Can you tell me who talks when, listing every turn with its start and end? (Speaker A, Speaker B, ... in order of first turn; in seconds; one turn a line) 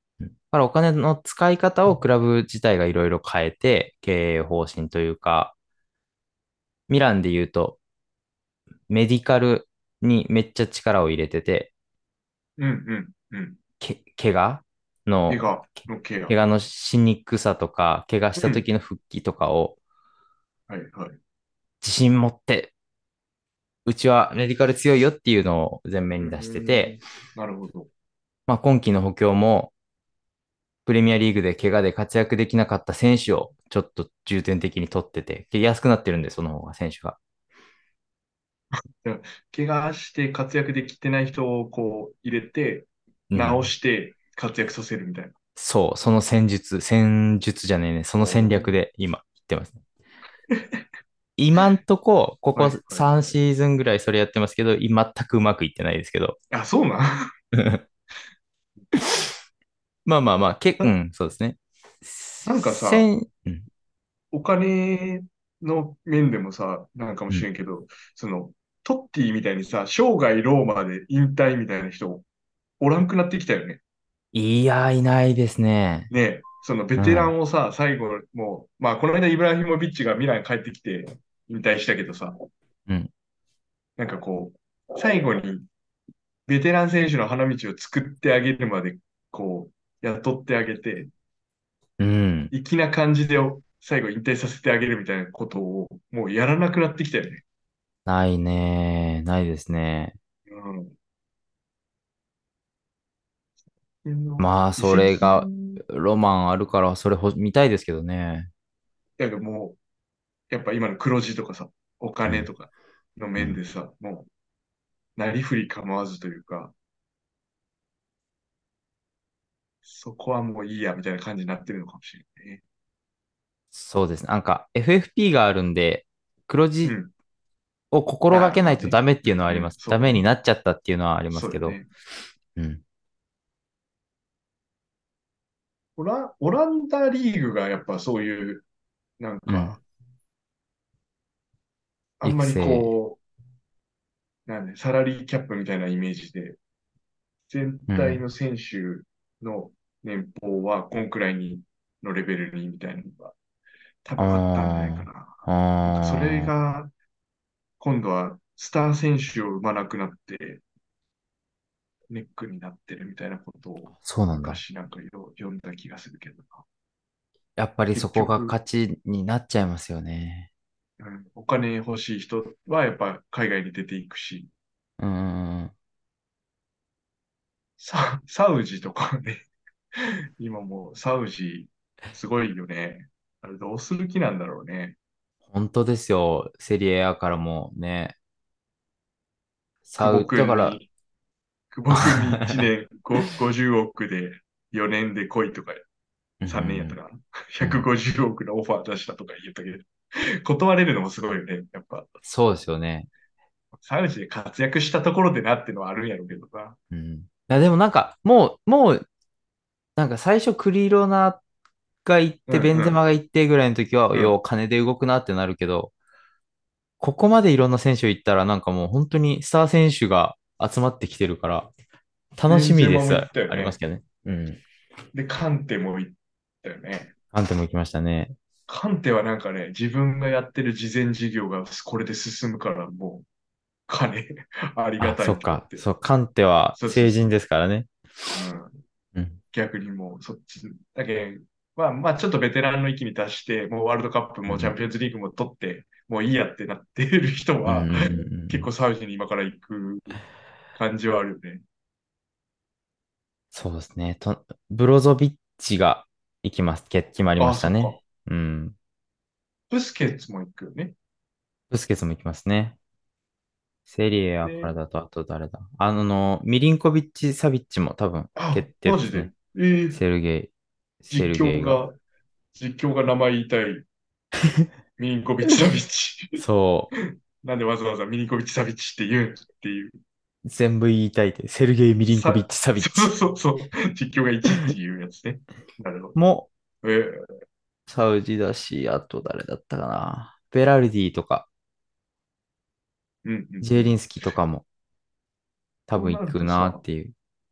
Speaker A: 0.2-5.5
Speaker A: 6.9-7.8
Speaker A: 8.9-11.7
Speaker B: 12.6-13.6
Speaker A: 13.8-15.7
Speaker B: 15.3-16.4
Speaker A: 16.3-19.8
Speaker B: 18.4-18.6
Speaker B: 20.7-21.2
Speaker A: 21.8-22.7
Speaker A: 23.9-26.9
Speaker B: 26.2-27.9
Speaker A: 28.5-29.7
Speaker A: 30.9-37.2
Speaker B: 39.0-45.4
Speaker A: 43.3-43.7
Speaker A: 45.6-49.8
Speaker B: 48.2-48.8
Speaker B: 50.5-50.8
Speaker A: 51.4-56.4
Speaker B: 52.5-53.4
Speaker B: 56.5-57.1
Speaker A: 57.5-57.8
Speaker A: 60.1-63.7
Speaker B: 62.5-63.1
Speaker B: 64.3-72.2
Speaker B: 72.8-73.8
Speaker A: 74.3-76.1
Speaker B: 76.1-82.4
Speaker A: 77.0-77.3
Speaker B: 84.0-85.7
Speaker B: 86.5-91.1
Speaker A: 92.0-92.5
Speaker B: 92.5-97.4
Speaker A: 98.1-100.2
Speaker B: 100.5-101.0
Speaker B: 104.0-105.8
Speaker A: 104.4-108.5
Speaker B: 109.2-109.8
Speaker B: 110.5-114.3
Speaker B: 115.2-116.7
Speaker B: 119.8-122.6
Speaker A: 123.7-127.0
Speaker B: 126.8-127.1
Speaker A: 127.9-131.8
Speaker B: 128.3-130.2
Speaker B: 131.3-131.9
Speaker A: 132.6-132.8
Speaker B: 136.0-138.7
Speaker B: 139.2-139.8
Speaker A: 139.5-139.8
Speaker B: 142.2-143.2
Speaker A: 142.2-142.9
Speaker B: 144.5-146.6
Speaker B: 147.5-153.3
Speaker A: 147.9-148.2
Speaker B: 154.1-156.9
Speaker A: 154.2-156.5
Speaker B: 157.8-160.6
Speaker B: 162.1-166.7
Speaker A: 164.0-164.6
Speaker A: 167.6-170.5
Speaker B: 167.9-168.5
Speaker B: 171.0-174.5
Speaker A: 175.0-175.7
Speaker B: 177.8-179.4
Speaker B: 180.0-185.0
Speaker A: 185.5-188.2
Speaker A: 189.9-190.8
Speaker B: 190.0-190.9
Speaker B: 191.7-195.8
Speaker A: 191.9-192.6
Speaker A: 196.4-197.0
Speaker B: 196.5-199.9
Speaker A: 197.6-197.9
Speaker B: 200.4-202.1
Speaker A: 202.2-203.1
Speaker B: 203.8-206.8
Speaker A: 206.9-209.0
Speaker A: 210.0-211.4
Speaker A: 212.1-215.9
Speaker B: 212.5-213.0
Speaker B: 214.1-214.4
Speaker A: 217.0-221.7
Speaker A: 222.3-224.6
Speaker B: 222.5-223.8
Speaker B: 225.1-227.1
Speaker A: 227.3-228.3
Speaker B: 228.7-233.2
Speaker B: 233.9-235.9
Speaker A: 235.0-237.9
Speaker B: 236.8-237.2
Speaker B: 238.3-238.8
Speaker B: 239.5-250.2
Speaker A: 244.5-244.8
Speaker A: 247.7-248.7
Speaker B: 250.7-251.6
Speaker A: 253.5-258.8
Speaker B: 257.4-258.0
Speaker B: 259.7-260.9
Speaker A: 261.7-262.8
Speaker A: 263.9-269.3
Speaker B: 264.4-264.7
Speaker B: 268.4-270.0
Speaker A: 269.9-271.8
Speaker B: 271.1-272.0
Speaker B: 272.6-273.9
Speaker B: 275.0-276.4
Speaker A: 276.4-276.9
Speaker B: 276.9-280.0
Speaker A: 280.4-283.1
Speaker B: 282.1-286.2
Speaker A: 286.2-286.5
Speaker B: 286.8-287.3
Speaker A: 287.9-291.5
Speaker B: 293.2-294.0
Speaker A: 293.6-294.6
Speaker A: 295.9-297.1
Speaker B: 295.9-296.8